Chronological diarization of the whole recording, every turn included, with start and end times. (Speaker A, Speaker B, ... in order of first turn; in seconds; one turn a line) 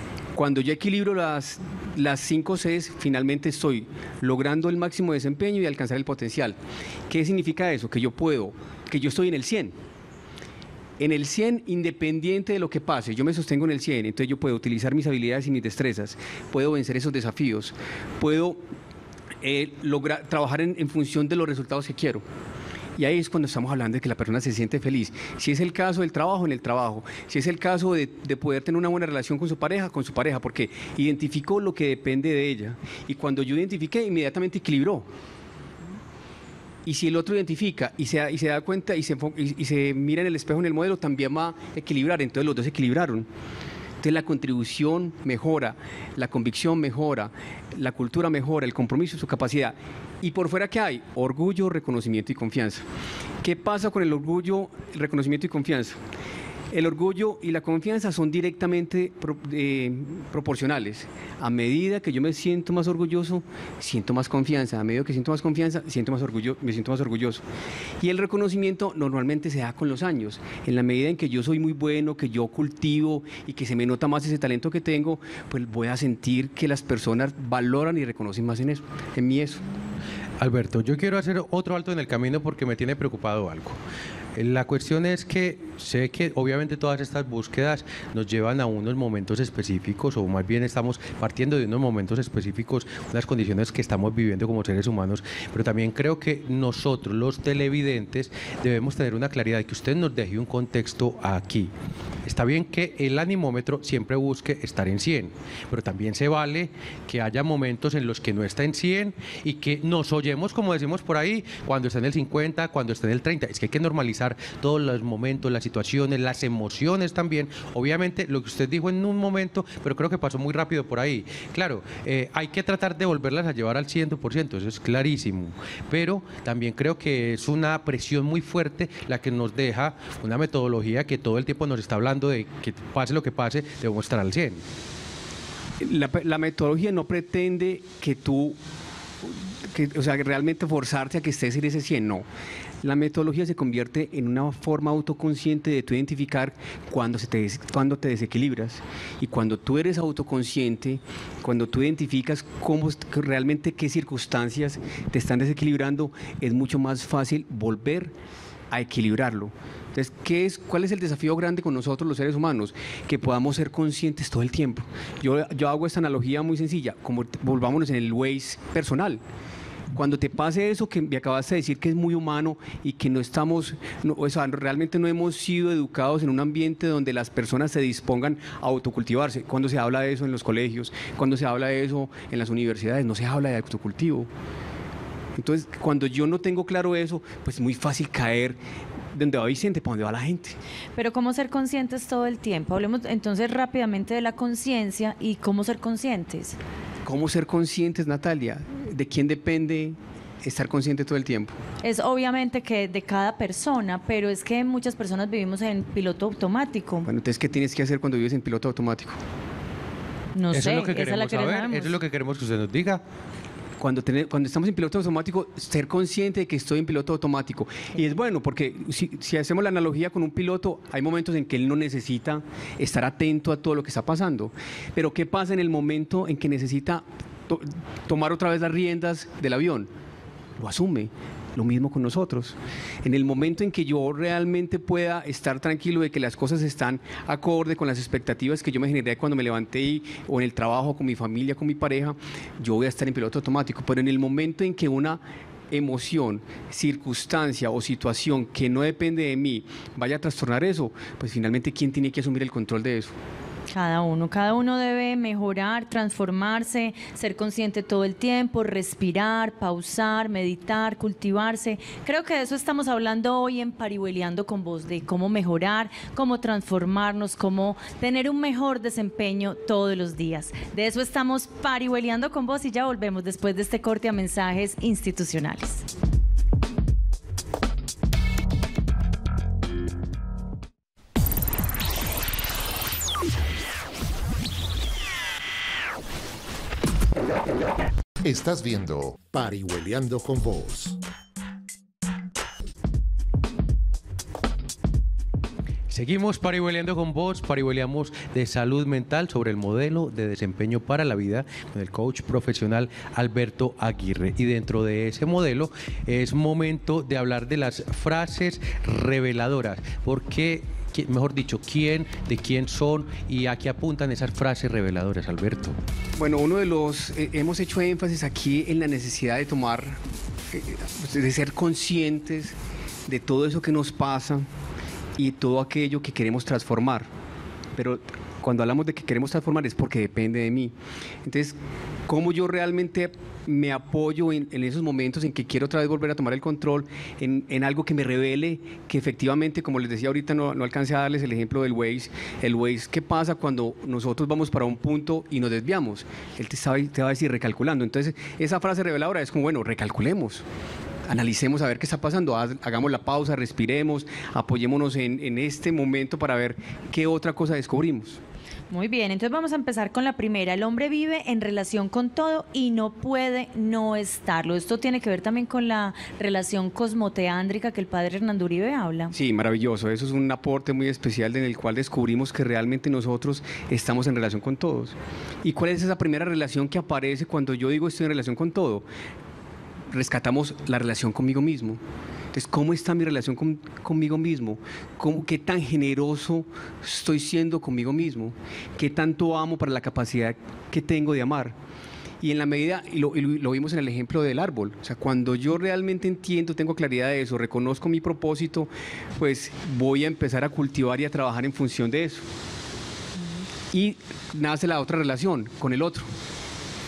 Speaker A: 0.3-6.6
Speaker A: 7.1-9.8
Speaker A: 11.0-18.6
Speaker A: 19.4-22.2
Speaker A: 23.0-35.1
Speaker A: 36.9-43.3
Speaker A: 44.0-52.8
Speaker A: 53.4-56.0
Speaker A: 56.7-67.4
Speaker A: 68.0-79.6
Speaker B: 80.4-83.8
Speaker B: 84.4-101.7
Speaker B: 102.2-134.6
Speaker A: 135.8-138.6
Speaker A: 139.2-142.2
Speaker A: 142.8-158.2
Speaker A: 158.7-169.2
Speaker A: 169.9-184.3
Speaker A: 185.4-188.6
Speaker A: 189.2-190.6
Speaker C: 191.0-196.6
Speaker A: 197.1-201.6
Speaker C: 201.8-207.1
Speaker A: 207.1-209.2
Speaker C: 210.3-212.0
Speaker B: 210.5-213.0
Speaker A: 213.8-229.9
Speaker A: 230.6-253.1
Speaker C: 253.7-275.8
Speaker D: 288.2-291.0
Speaker B: 295.9-315.8
Speaker A: 316.2-320.0
Speaker A: 320.5-322.6
Speaker A: 323.1-324.5
Speaker A: 325.2-327.1
Speaker A: 327.8-330.7
Speaker A: 331.2-331.6
Speaker A: 332.1-350.4
Speaker A: 351.1-358.2
Speaker C: 358.7-369.1
Speaker A: 369.1-378.9
Speaker A: 379.9-381.8
Speaker A: 382.3-391.6
Speaker A: 392.2-402.2
Speaker A: 403.7-406.1